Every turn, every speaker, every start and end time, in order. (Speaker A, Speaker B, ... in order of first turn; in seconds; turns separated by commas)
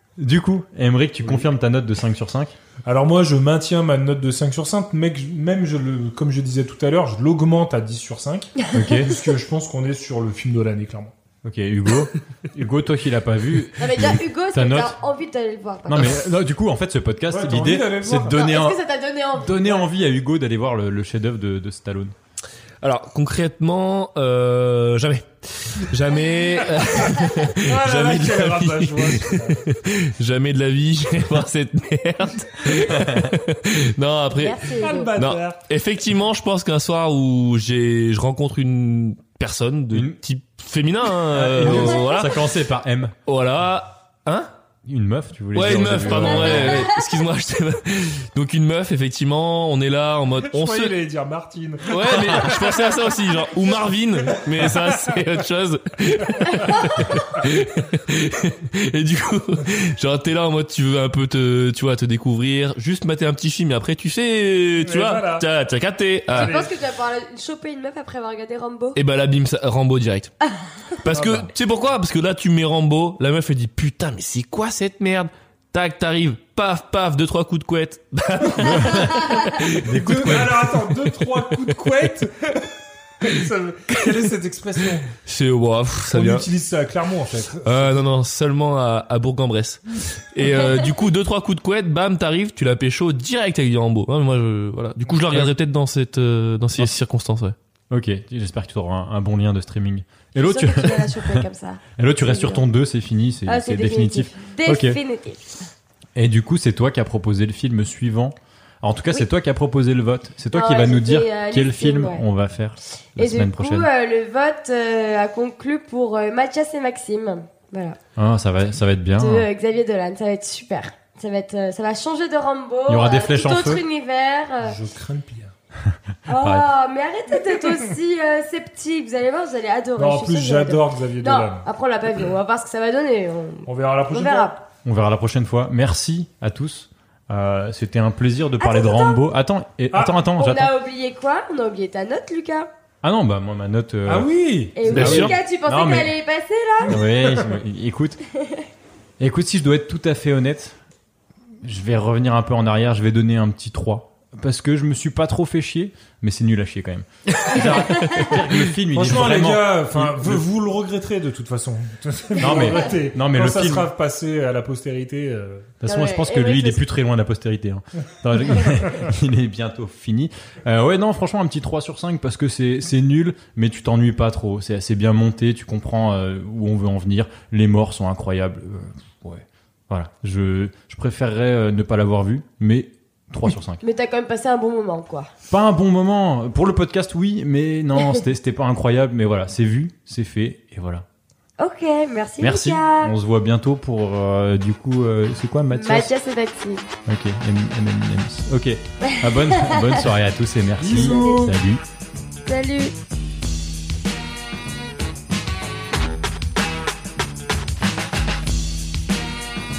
Speaker A: 0.2-2.5, Speaker B: 2.9-11.1, Speaker A: 8.7-9.1, Speaker A: 11.4-15.0, Speaker C: 13.8-16.3, Speaker A: 15.9-18.8, Speaker B: 17.3-18.4, Speaker C: 18.2-19.9, Speaker A: 19.3-22.1, Speaker D: 22.8-34.6, Speaker B: 27.5-29.6, Speaker A: 32.9-33.3, Speaker C: 34.4-35.1, Speaker B: 34.7-35.6, Speaker D: 35.2-42.4, Speaker A: 39.9-40.2, Speaker B: 41.3-41.9, Speaker A: 41.4-43.2, Speaker D: 43.3-44.5, Speaker A: 44.9-46.9, Speaker D: 45.5-50.9, Speaker C: 46.4-46.9, Speaker B: 50.5-52.8, Speaker D: 51.9-66.5, Speaker B: 54.3-54.9, Speaker B: 56.2-56.8, Speaker B: 64.8-65.5, Speaker B: 66.3-66.8, Speaker C: 66.4-69.0, Speaker D: 69.0-70.3, Speaker D: 71.0-79.8, Speaker B: 71.1-71.5, Speaker A: 78.6-81.0, Speaker B: 79.9-85.1, Speaker D: 85.2-86.5, Speaker B: 86.1-88.0, Speaker D: 87.7-97.5, Speaker B: 95.1-95.5, Speaker A: 97.9-101.5, Speaker C: 100.4-102.7, Speaker A: 102.0-105.0, Speaker C: 103.5-105.7, Speaker A: 106.2-113.9, Speaker C: 110.5-112.3, Speaker C: 113.2-118.0, Speaker A: 118.2-119.5, Speaker C: 119.2-124.8, Speaker A: 122.9-123.8, Speaker B: 124.6-125.5, Speaker A: 125.9-126.7, Speaker C: 126.3-134.6, Speaker B: 130.0-131.7, Speaker B: 133.7-134.6, Speaker A: 134.8-140.7, Speaker C: 138.6-139.2, Speaker C: 140.4-142.7, Speaker A: 143.0-146.1, Speaker B: 144.1-145.4, Speaker C: 144.8-147.0, Speaker B: 146.9-147.6, Speaker A: 146.9-148.2, Speaker A: 149.2-150.8, Speaker A: 151.6-160.5, Speaker C: 157.5-158.3, Speaker B: 158.9-165.7, Speaker A: 162.4-163.9, Speaker A: 165.8-183.8, Speaker C: 165.9-166.8, Speaker C: 183.8-185.3, Speaker A: 185.5-191.1, Speaker C: 191.6-193.1, Speaker A: 192.4-196.1, Speaker C: 195.7-196.9, Speaker A: 197.1-201.8, Speaker B: 200.8-201.6, Speaker C: 202.5-202.9